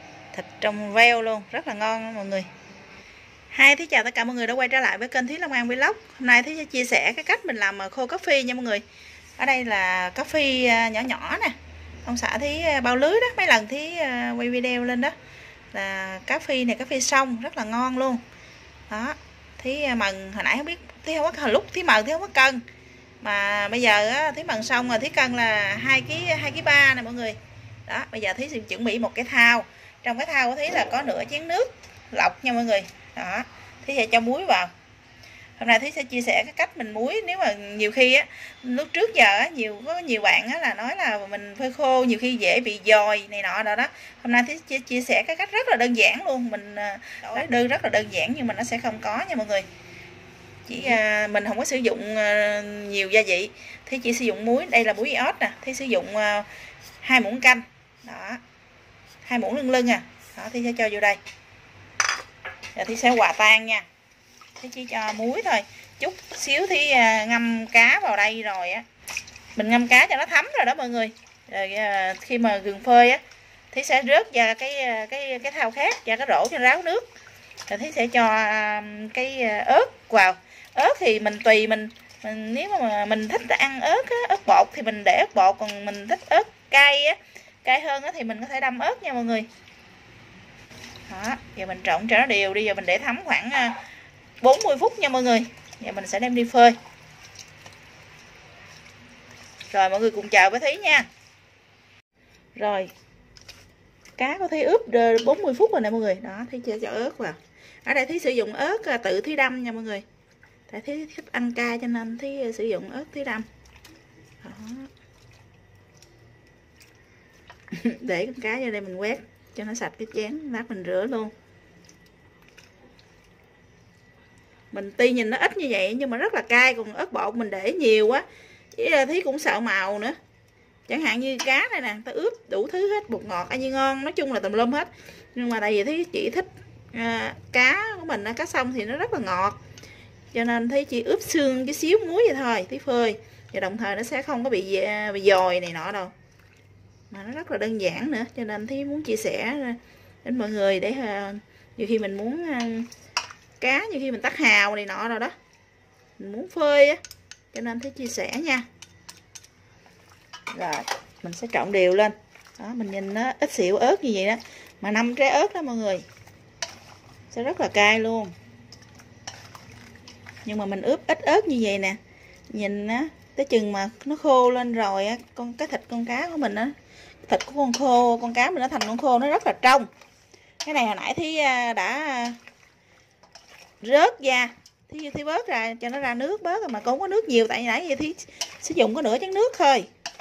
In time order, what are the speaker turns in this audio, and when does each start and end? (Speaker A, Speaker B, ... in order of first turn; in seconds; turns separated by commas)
Speaker A: 0.3-2.5, Speaker A: 3.5-8.8, Speaker A: 9.4-15.2, Speaker A: 15.7-18.2, Speaker A: 18.9-22.6, Speaker A: 23.2-34.7, Speaker A: 35.6-49.6, Speaker A: 50.7-56.5, Speaker A: 57.0-58.4, Speaker A: 59.2-61.2, Speaker A: 62.8-63.9, Speaker A: 64.6-68.8, Speaker A: 69.6-73.2, Speaker A: 73.7-77.1, Speaker A: 77.7-89.5, Speaker A: 91.1-93.8, Speaker A: 94.4-96.8, Speaker A: 99.7-101.1, Speaker A: 102.6-102.9, Speaker A: 104.2-110.0, Speaker A: 110.7-113.5, Speaker A: 114.4-114.9, Speaker A: 117.7-121.3, Speaker A: 124.7-130.2, Speaker A: 130.9-139.6, Speaker A: 140.3-146.1, Speaker A: 147.1-152.9, Speaker A: 153.6-155.3, Speaker A: 156.2-157.0, Speaker A: 157.5-158.7, Speaker A: 160.5-166.1, Speaker A: 167.3-168.3, Speaker A: 170.5-172.0, Speaker A: 172.5-176.7, Speaker A: 177.2-179.9, Speaker A: 180.6-182.4, Speaker A: 183.8-189.9